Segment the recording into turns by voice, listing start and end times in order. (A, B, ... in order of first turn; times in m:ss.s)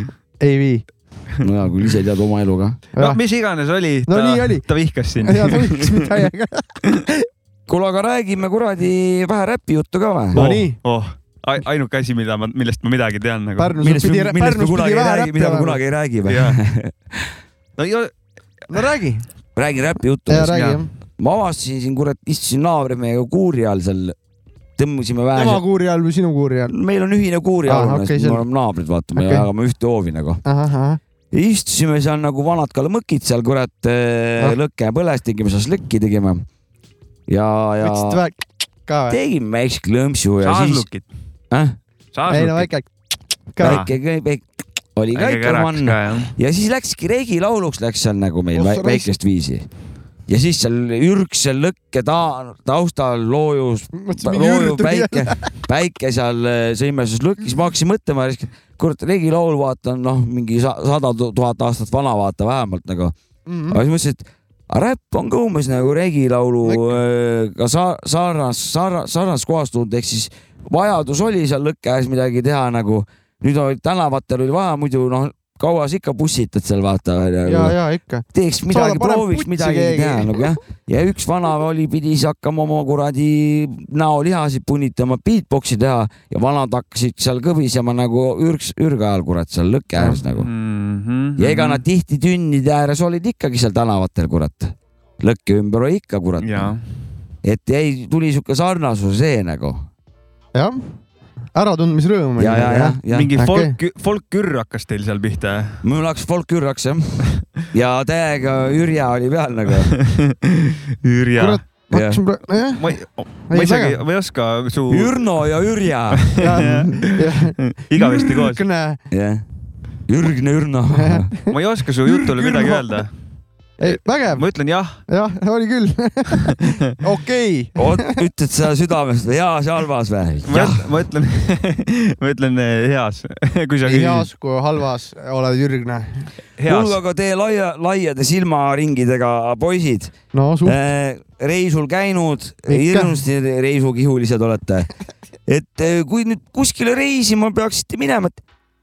0:00.4-0:00.8 A
0:01.4-0:02.8 B
0:03.0-0:06.0 C
0:04.1-0:04.6 A
0:05.2-0:06.7 A
0:07.7-0:10.4 B
0:10.3-0:10.8 A
0:10.3-0:13.7 C
0:13.6-0:15.8 A
0:13.8-0:17.3 B
0:16.2-0:16.6 C
0:17.8-0:18.1 C
0:18.7-0:19.2 A
0:19.6-0:24.2 B
0:20.3-0:20.9 A
0:24.8-0:25.6 B
0:25.3-0:26.7 A
0:26.7-0:30.4 B
0:27.7-0:28.4 A
0:29.2-0:29.5 A
0:30.4-0:31.0 A
0:31.3-0:36.4 B
0:37.3-0:38.2 B
0:37.8-0:39.2 A
0:39.1-0:40.8 B
0:40.4-0:41.1 C
0:41.5-0:41.8 B
0:42.1-0:42.7 C
0:42.3-0:42.9 A
0:43.5-0:43.8 A
0:43.6-0:49.6 B
0:43.6-0:43.9 C
0:45.1-0:46.3 C
0:48.5-0:49.1 A
0:50.3-1:03.1 B
0:53.9-0:55.4 A
1:03.4-1:03.8 A
1:03.7-1:17.8 B
1:06.6-1:07.0 A
1:17.4-1:20.4 A
1:18.3-1:30.5 B
1:30.4-1:31.8 C
1:31.4-1:36.7 B
1:36.4-1:36.8 C
1:37.4-1:39.9 B
1:40.5-1:40.9 A
1:41.5-1:43.7 A
1:42.4-1:43.3 B
1:43.1-1:45.8 C
1:45.8-1:49.9 B
1:50.0-1:51.6 C
1:51.4-1:52.8 A
1:51.9-1:52.2 B
1:52.8-1:55.2 C
1:53.5-1:54.0 A
1:54.9-1:56.9 B
1:56.2-1:58.6 C
1:56.4-1:59.0 A
1:59.1-1:59.4 B
2:00.1-2:01.3 B
2:00.9-2:01.5 A
2:01.5-2:03.1 C
2:02.1-2:02.8 B
2:03.8-2:04.4 A
2:03.8-2:05.0 C
2:05.1-2:08.1 A
2:07.8-2:10.8 B
2:10.5-2:14.3 C
2:13.8-2:16.3 A
2:16.6-2:17.0 C
2:16.7-2:20.1 B
2:20.3-2:20.8 A
2:20.6-2:24.9 B
2:22.7-2:23.2 A
2:25.5-2:28.4 B